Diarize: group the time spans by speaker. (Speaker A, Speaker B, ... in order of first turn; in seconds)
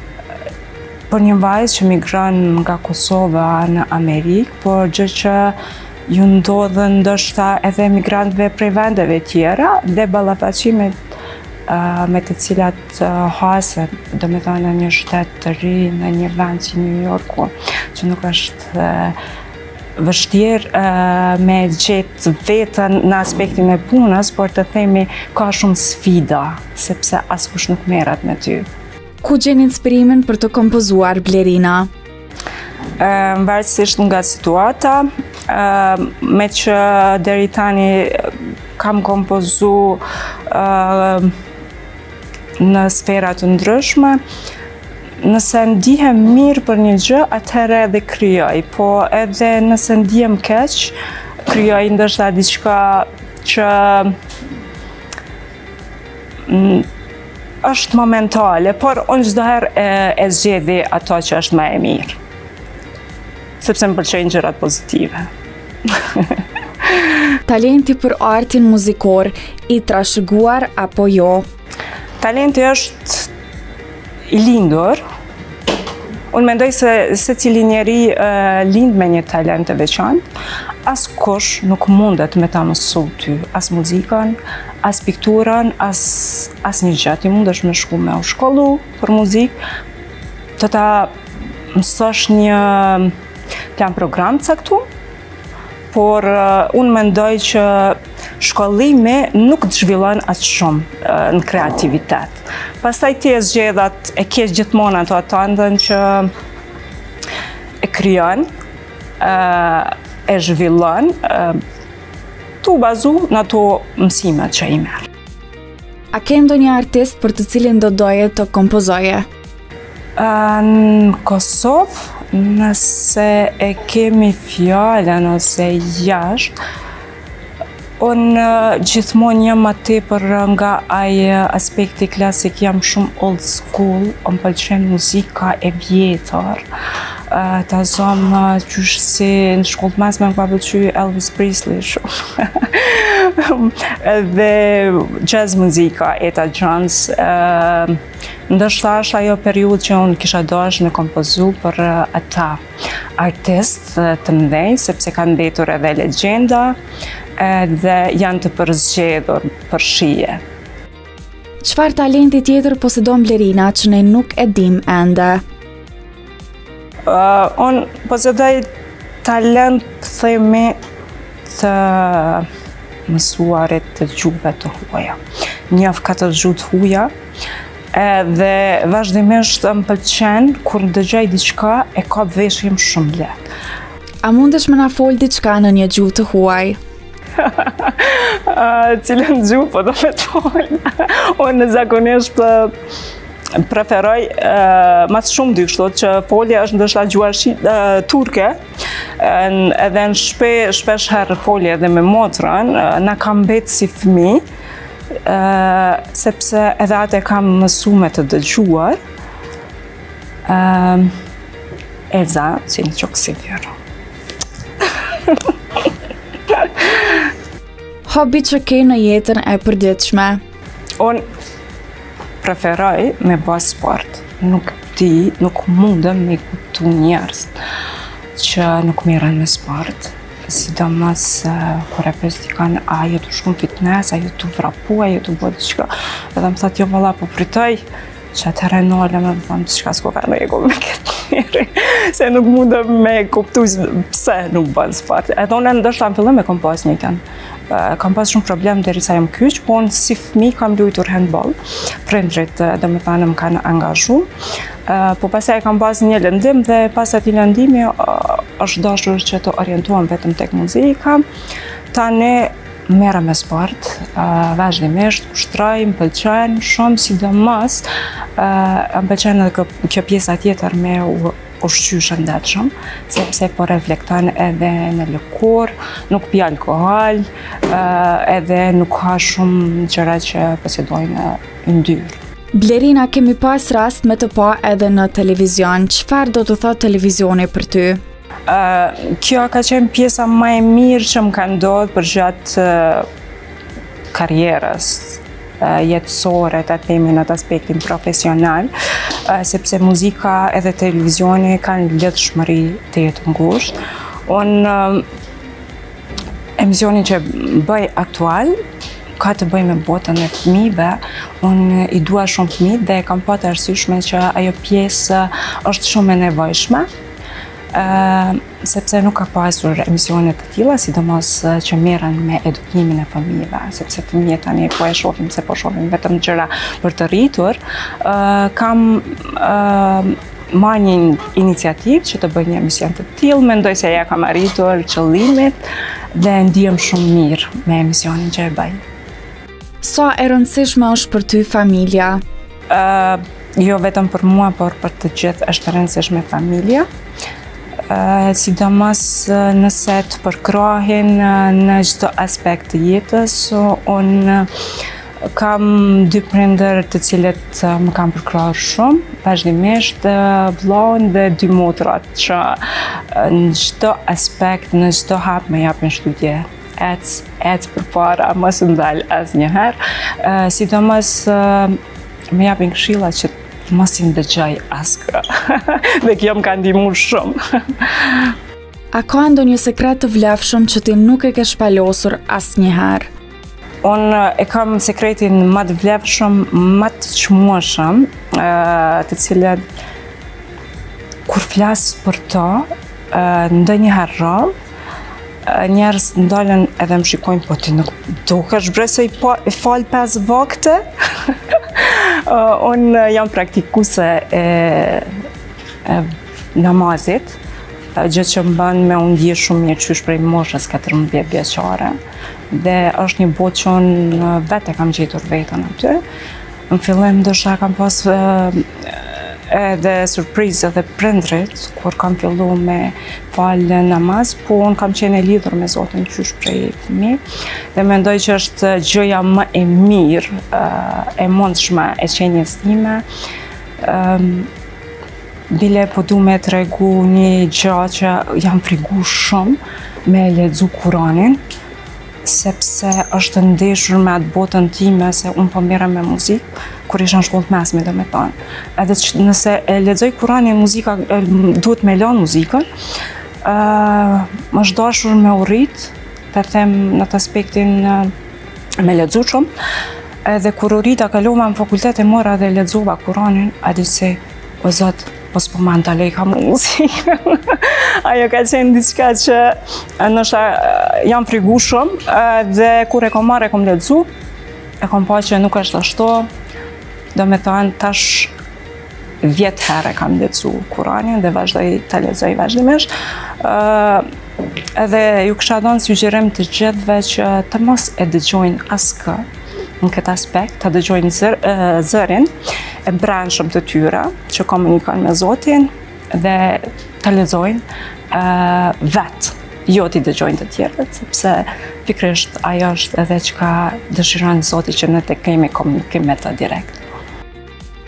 Speaker A: 1.1-5.5, 6.1-10.9, 11.7-19.2, 20.0-28.7, 33.0-41.3, 42.6-44.2, 45.2-50.9, 51.5-54.1, 56.5-56.9, 57.6-62.2, 63.6-65.2, 65.9-67.1, 72.2-73.3, 74.3-75.0, 76.3-80.2, 80.8-89.6, 90.6-91.1, 91.7-93.1, 93.7-94.8, 95.9-106.3, 107.8-108.5, 109.2-111.6, 112.6-115.1, 120.2-126.5, 128.0-136.7, 137.3-152.6, 153.2-156.8, 157.4-160.4, 167.1-168.7, 169.2-170.8, 171.5-172.5, 173.1-175.2, 175.7-177.1, 177.9-183.5, 187.4-192.7, 193.6-198.6, 199.2-204.4, 205.2-209.0, 210.5-211.1, 212.1-213.7, 215.1-215.5, 216.6-217.0, 222.4-227.5, 228.3-254.3, 254.9-261.2, 261.9-282.2, 288.5-293.1, 294.1-305.0, 306.6-308.5, 309.2-316.9, 317.7-335.6, 336.1-338.8, 342.7-346.9, 347.9-354.5, 355.3-371.8, 372.3-378.3, 383.8-389.6, 391.3-394.5, 395.4-405.1, 405.8-407.4, 407.9-412.0, 412.5-416.0, 416.7-427.2, 427.7-433.0, 433.8-434.5, 435.5-441.4, 442.2-452.7, 453.4-458.1, 458.8-459.5, 460.2-474.1, 474.8-476.3, 477.1-478.3, 479.2-484.1, 484.7-489.2, 489.8-492.3, 492.9-506.8
Speaker B: 29.2-31.9, 67.5-71.5, 116.1-119.3, 161.6-165.4, 184.2-186.8, 218.1-220.4, 282.5-288.0, 339.8-342.2, 378.9-383.1